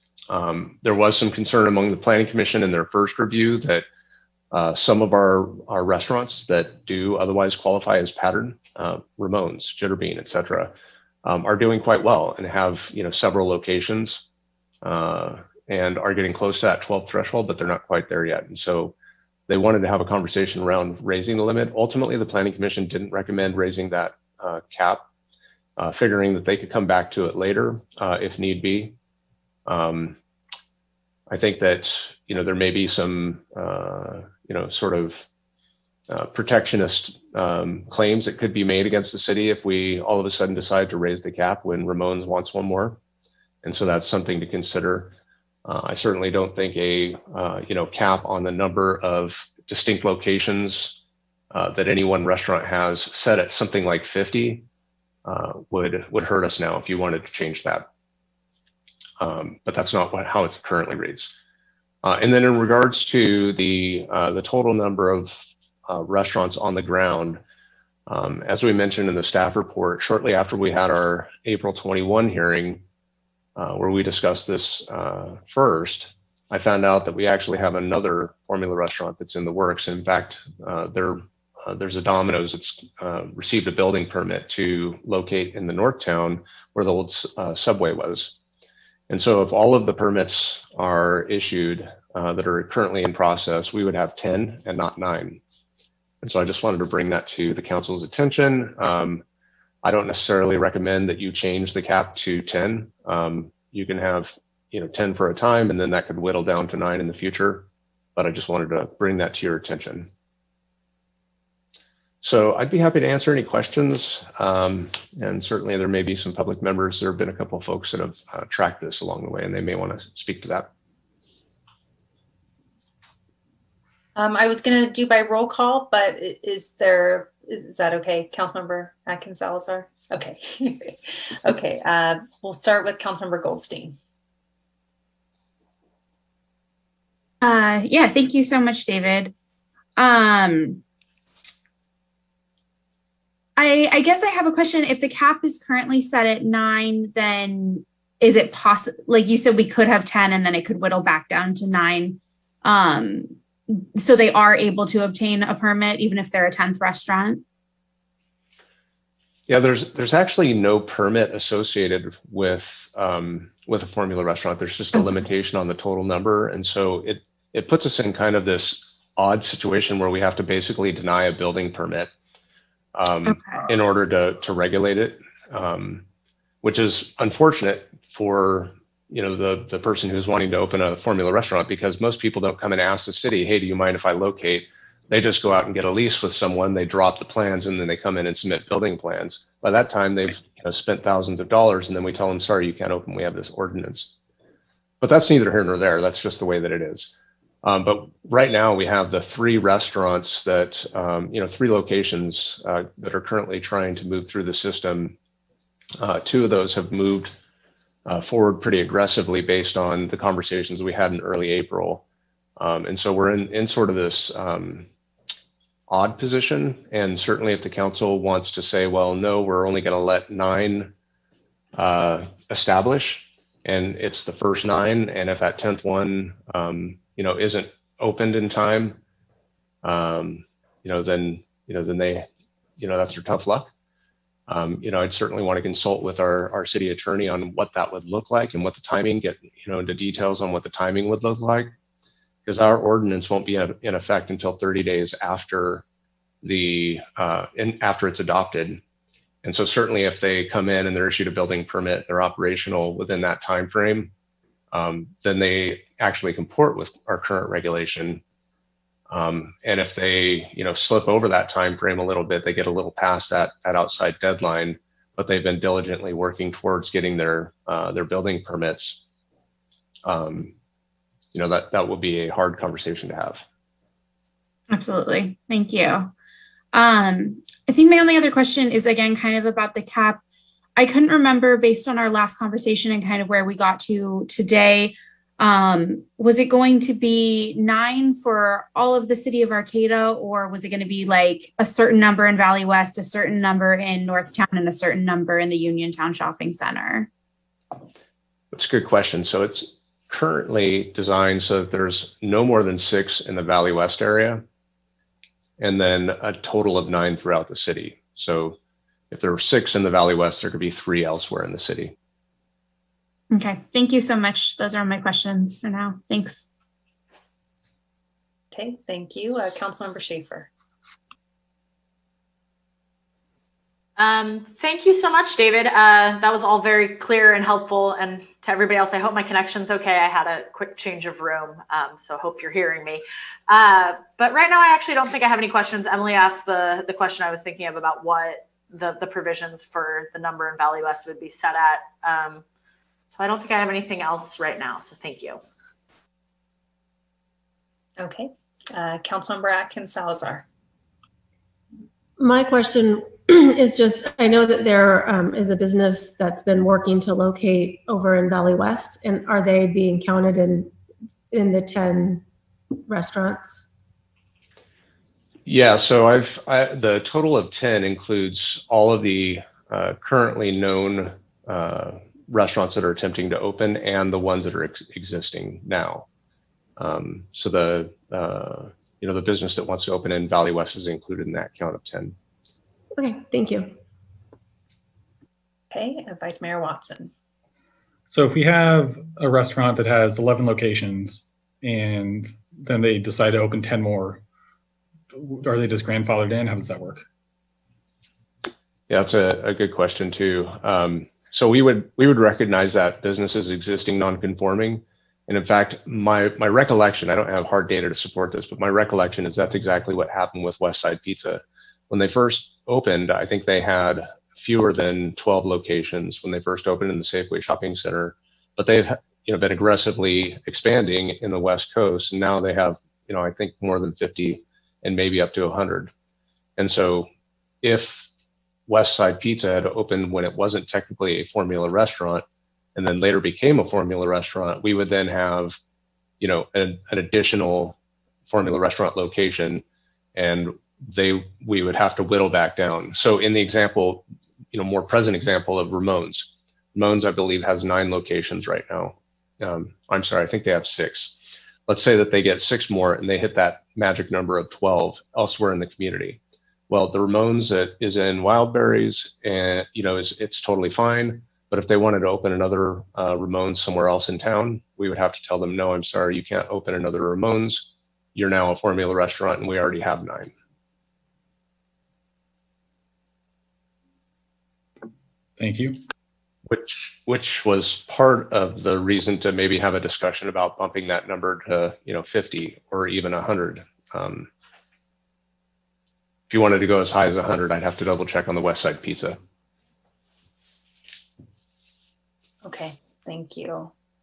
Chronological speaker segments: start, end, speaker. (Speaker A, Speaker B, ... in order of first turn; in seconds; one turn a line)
Speaker A: 0.3-3.8
Speaker A: 4.5-10.7
Speaker A: 11.2-14.2
Speaker A: 14.8-18.9
Speaker A: 19.5-25.0
Speaker A: 25.8-28.9
Speaker A: 29.6-30.2
Speaker A: 31.3-35.2
Speaker A: 36.1-43.0
Speaker A: 43.6-51.0
Speaker A: 51.5-54.6
Speaker A: 55.2-57.9
Speaker A: 59.2-61.3
Speaker A: 62.0-67.4
Speaker A: 68.1-72.8
Speaker A: 73.5-88.3
Speaker A: 89.1-95.4
Speaker A: 96.2-99.2
Speaker A: 99.8-110.1
Speaker A: 112.2-120.7
Speaker B: 124.2-134.0
Speaker C: 137.4-139.3
Speaker C: 139.9-140.8
Speaker C: 143.6-157.4
Speaker A: 159.5-172.1
Speaker A: 172.9-176.0
Speaker C: 173.3-173.6
Speaker A: 176.6-194.1
Speaker A: 195.0-197.1
Speaker A: 197.6-205.1
Speaker A: 206.0-207.3
Speaker A: 208.1-212.0
Speaker A: 212.6-214.9
Speaker A: 215.9-220.9
Speaker A: 221.7-229.0
Speaker A: 229.8-232.3
Speaker A: 232.8-233.7
Speaker A: 234.5-241.7
Speaker A: 242.4-245.8
Speaker A: 246.4-248.8
Speaker A: 249.4-254.1
Speaker A: 254.7-258.2
Speaker A: 259.1-269.0
Speaker A: 270.0-270.5
Speaker A: 271.3-273.4
Speaker C: 274.7-276.1
Speaker C: 276.7-280.2
Speaker C: 280.8-297.1
Speaker A: 298.5-304.4
Speaker A: 305.6-308.6
Speaker A: 309.1-311.9
Speaker C: 313.3-316.5
Speaker B: 318.5-320.5
Speaker D: 324.0-342.4
Speaker D: 343.1-345.4
Speaker B: 348.0-350.4
Speaker E: 352.2-360.7
Speaker E: 361.3-362.2
Speaker E: 362.9-363.6
Speaker A: 365.4-376.1
Speaker A: 376.8-382.1
Speaker E: 382.9-383.7
Speaker B: 385.7-387.1
Speaker F: 388.1-394.2
Speaker F: 395.1-397.0
Speaker A: 398.9-425.9
Speaker A: 426.6-427.1
Speaker A: 427.6-428.1
Speaker A: 428.7-432.2
Speaker A: 432.7-435.6
Speaker A: 436.2-437.8
Speaker A: 438.3-439.6
Speaker A: 440.1-451.1
Speaker A: 451.7-470.3
Speaker F: 475.4-475.8
Speaker A: 476.4-484.3
Speaker A: 486.3-489.2
Speaker B: 492.4-493.7